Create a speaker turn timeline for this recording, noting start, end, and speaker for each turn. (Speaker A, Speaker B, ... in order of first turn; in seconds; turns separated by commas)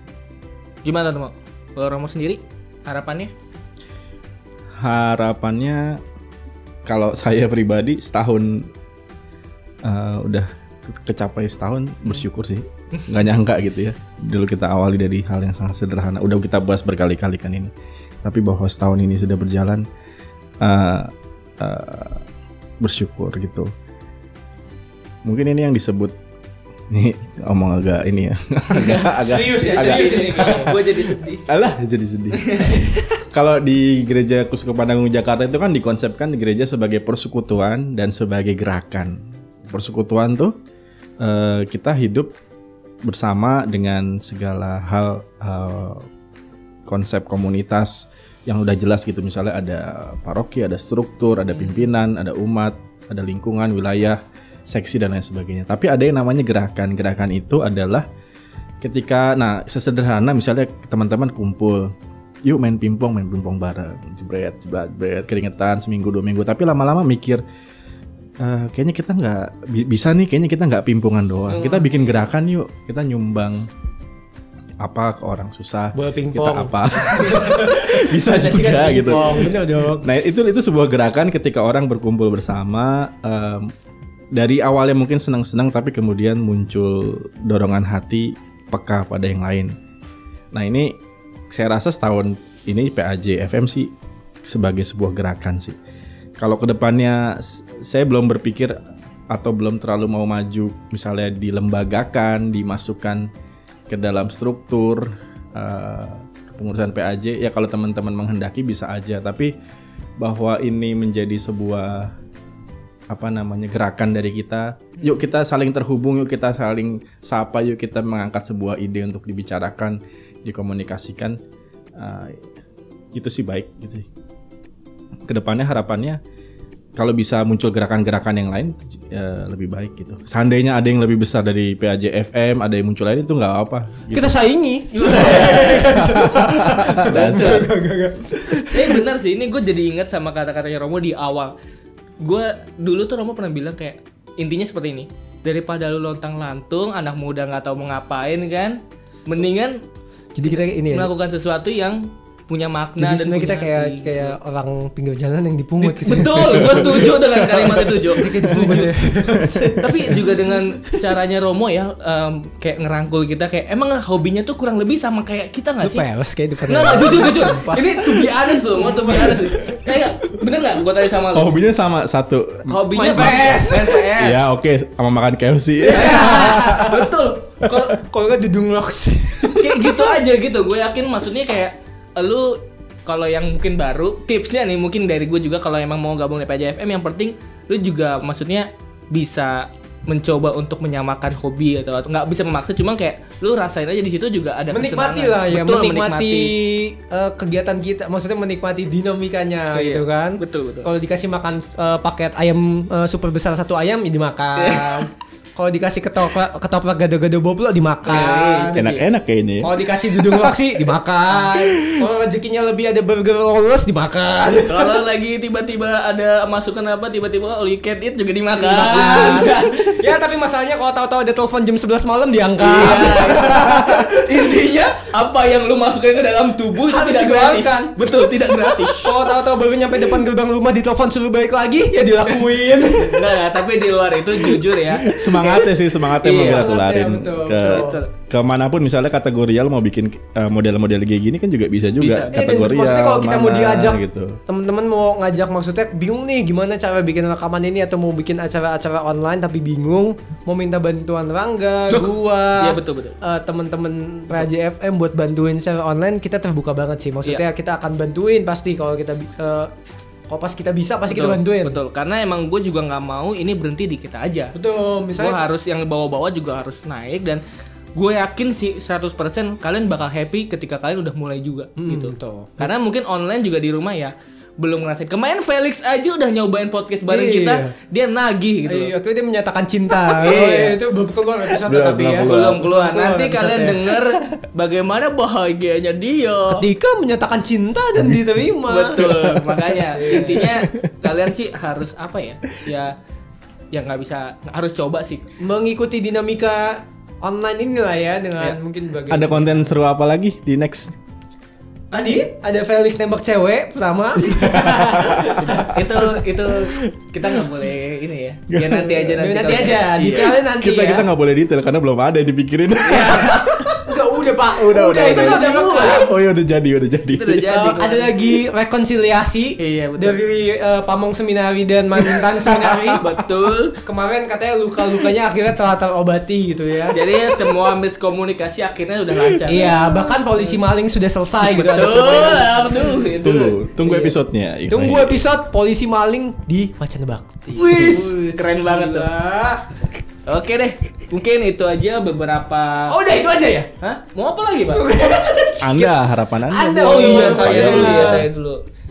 Speaker A: 0.8-3.3, Speaker B: 4.8-6.0, Speaker B: 6.8-8.7, Speaker B: 9.8-17.7, Speaker B: 18.2-19.8, Speaker B: 20.6-22.2, Speaker B: 22.8-23.7, Speaker B: 25.2-26.1, Speaker B: 26.9-40.5, Speaker A: 28.7-31.4, Speaker C: 29.3-30.8, Speaker A: 32.3-32.9, Speaker B: 41.2-42.3, Speaker B: 43.0-46.1, Speaker B: 46.9-58.0, Speaker A: 51.5-51.9, Speaker B: 58.8-61.9, Speaker B: 62.4-67.4, Speaker B: 68.4-73.7, Speaker A: 71.5-72.2, Speaker B: 74.8-83.7, Speaker C: 75.9-80.1, Speaker B: 84.3-89.7, Speaker B: 90.5-91.0, Speaker B: 91.5-93.9, Speaker B: 94.4-95.8, Speaker B: 96.4-103.3, Speaker B: 103.9-109.5, Speaker B: 110.2-112.1, Speaker B: 113.1-121.4, Speaker B: 122.0-122.5, Speaker B: 123.1-124.1, Speaker B: 125.3-126.2, Speaker B: 127.0-134.3, Speaker C: 134.1-139.0, Speaker A: 134.9-136.2, Speaker B: 135.8-137.7, Speaker A: 137.0-137.7, Speaker A: 138.6-141.5, Speaker A: 142.2-149.8, Speaker C: 150.3-151.1, Speaker A: 150.5-154.3, Speaker C: 153.0-161.1, Speaker A: 155.8-158.9, Speaker B: 156.3-157.2, Speaker B: 158.5-159.8, Speaker A: 159.7-166.0, Speaker C: 165.8-170.0, Speaker A: 166.7-171.6, Speaker B: 171.3-176.9, Speaker A: 172.7-174.5, Speaker C: 172.9-174.0, Speaker C: 175.8-177.1, Speaker A: 175.9-178.0, Speaker C: 177.7-180.2, Speaker A: 179.6-196.5, Speaker C: 194.7-208.8, Speaker A: 199.7-200.9, Speaker A: 204.6-205.1, Speaker A: 208.1-209.1, Speaker B: 208.8-210.7, Speaker C: 209.6-215.0, Speaker B: 211.6-212.1, Speaker A: 214.7-220.0, Speaker C: 218.5-224.5, Speaker A: 222.6-229.1, Speaker C: 226.8-233.4, Speaker A: 232.3-235.6, Speaker B: 235.0-244.4, Speaker C: 235.4-235.7, Speaker A: 236.2-236.7, Speaker C: 236.3-238.0, Speaker A: 237.6-238.1, Speaker A: 242.0-242.4, Speaker C: 242.3-259.7, Speaker A: 251.9-253.2, Speaker C: 260.3-261.8, Speaker A: 261.1-264.5, Speaker C: 264.5-265.4, Speaker A: 265.1-267.4, Speaker A: 267.9-278.9, Speaker C: 271.8-272.7, Speaker C: 277.1-277.7, Speaker C: 278.6-284.0, Speaker A: 280.1-280.8, Speaker B: 281.6-282.7, Speaker A: 282.2-286.6, Speaker C: 286.5-289.1, Speaker A: 288.6-292.9, Speaker B: 289.0-290.5, Speaker C: 290.0-290.5, Speaker A: 293.7-295.2, Speaker C: 295.4-299.7, Speaker B: 299.1-300.9, Speaker C: 301.9-306.2, Speaker B: 304.3-305.6, Speaker A: 305.3-310.4, Speaker B: 308.5-309.0, Speaker C: 309.0-311.1, Speaker B: 310.2-313.9, Speaker A: 312.8-313.7, Speaker C: 313.8-316.1, Speaker B: 314.4-317.5, Speaker A: 315.0-316.1, Speaker A: 317.1-318.1, Speaker C: 317.5-323.0, Speaker A: 319.6-320.2, Speaker B: 322.1-323.0, Speaker A: 323.0-323.8, Speaker C: 323.8-327.0, Speaker A: 326.9-330.5, Speaker B: 329.3-329.7, Speaker C: 329.5-332.9, Speaker A: 331.4-334.1, Speaker B: 332.9-335.2, Speaker C: 334.7-339.6, Speaker A: 337.6-339.5, Speaker A: 340.2-342.9, Speaker C: 342.9-343.7, Speaker A: 343.8-344.9, Speaker C: 344.7-348.3, Speaker B: 345.6-348.3, Speaker A: 346.8-348.6